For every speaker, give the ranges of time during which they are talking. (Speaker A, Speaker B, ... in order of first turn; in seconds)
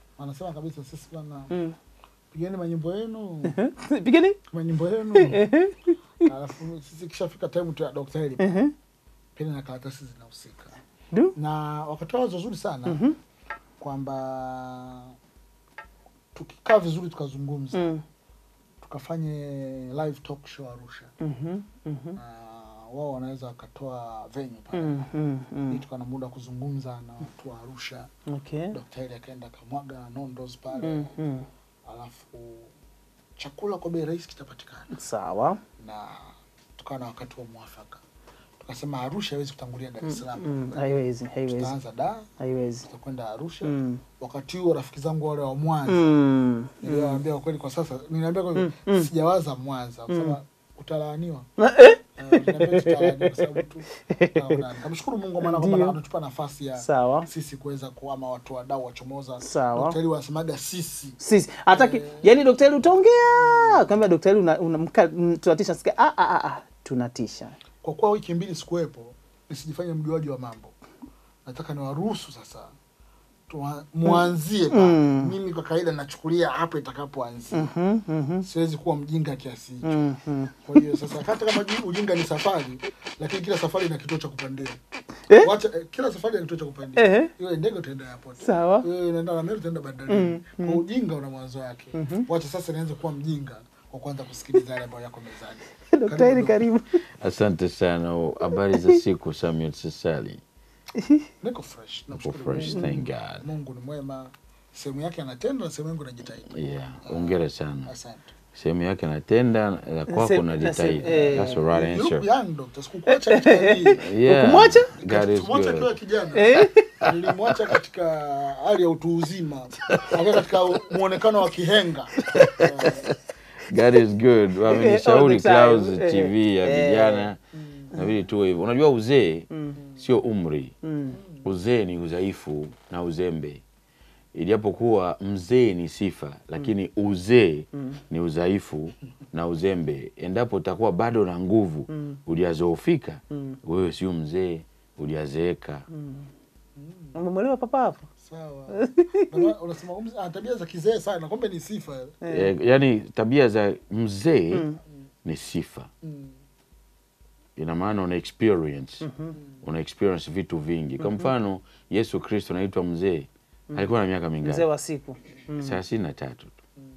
Speaker A: 0.2-1.5, 2.3-3.6, 4.5-5.5, 6.2-8.5, 9.4-10.7, 11.4-13.0, 13.8-15.1, 16.4-17.9, 18.8-21.1, 22.2-25.0, 25.7-28.1, 28.7-31.1, 31.9-32.7, 33.4-34.9, 35.8-36.2, 36.8-38.0, 38.6-40.9, 41.5-42.3, 42.9-46.1, 46.8-51.5, 52.2-61.2, 61.7-62.3, 63.0-63.9, 67.8-70.7, 71.5-72.7, 73.5-77.7, 78.4-79.9, 80.7-84.8, 85.4-96.6, 101.4-108.3, 111.0-123.0, 146.8-147.1, 148.2-152.2, 156.0-156.3
Speaker B: 3.5-4.4, 5.1-5.9, 8.4-8.7, 12.9-13.2, 17.7-18.0, 21.2-22.2, 24.7-25.8, 28.3-28.8, 30.8-31.5, 34.9-35.6, 40.0-41.7, 42.4-42.9, 43.6-44.0, 45.9-47.2, 48.5-49.1, 50.1-50.4, 51.6-54.6, 55.4-56.0, 56.8-57.3, 59.4-60.0, 61.2-67.5, 74.7-75.3, 77.5-78.5, 79.8-80.8, 87.0-87.3, 88.4-88.9, 90.1-90.8, 92.0-92.3, 95.9-97.0, 101.0-101.2, 102.6-103.0, 110.1-111.6, 113.1-114.9, 116.3-117.1, 122.3-122.7, 124.7-127.3, 130.8-131.2, 141.9-142.2, 145.9-146.3, 147.2-148.1, 148.7-149.5, 152.2-152.5, 154.5-154.8, 159.0-159.4, 161.0-161.3, 164.4-165.8
Speaker C: 97.2-100.4, 102.1-103.4, 106.5-107.9, 108.5-112.3, 114.0-115.9, 119.9-120.2, 122.3-127.4, 127.9-130.7, 131.4-133.6, 134.3-145.8, 152.3-154.6, 155.2-155.9, 157.6-159.1, 159.6-164.7, 165.6-166.5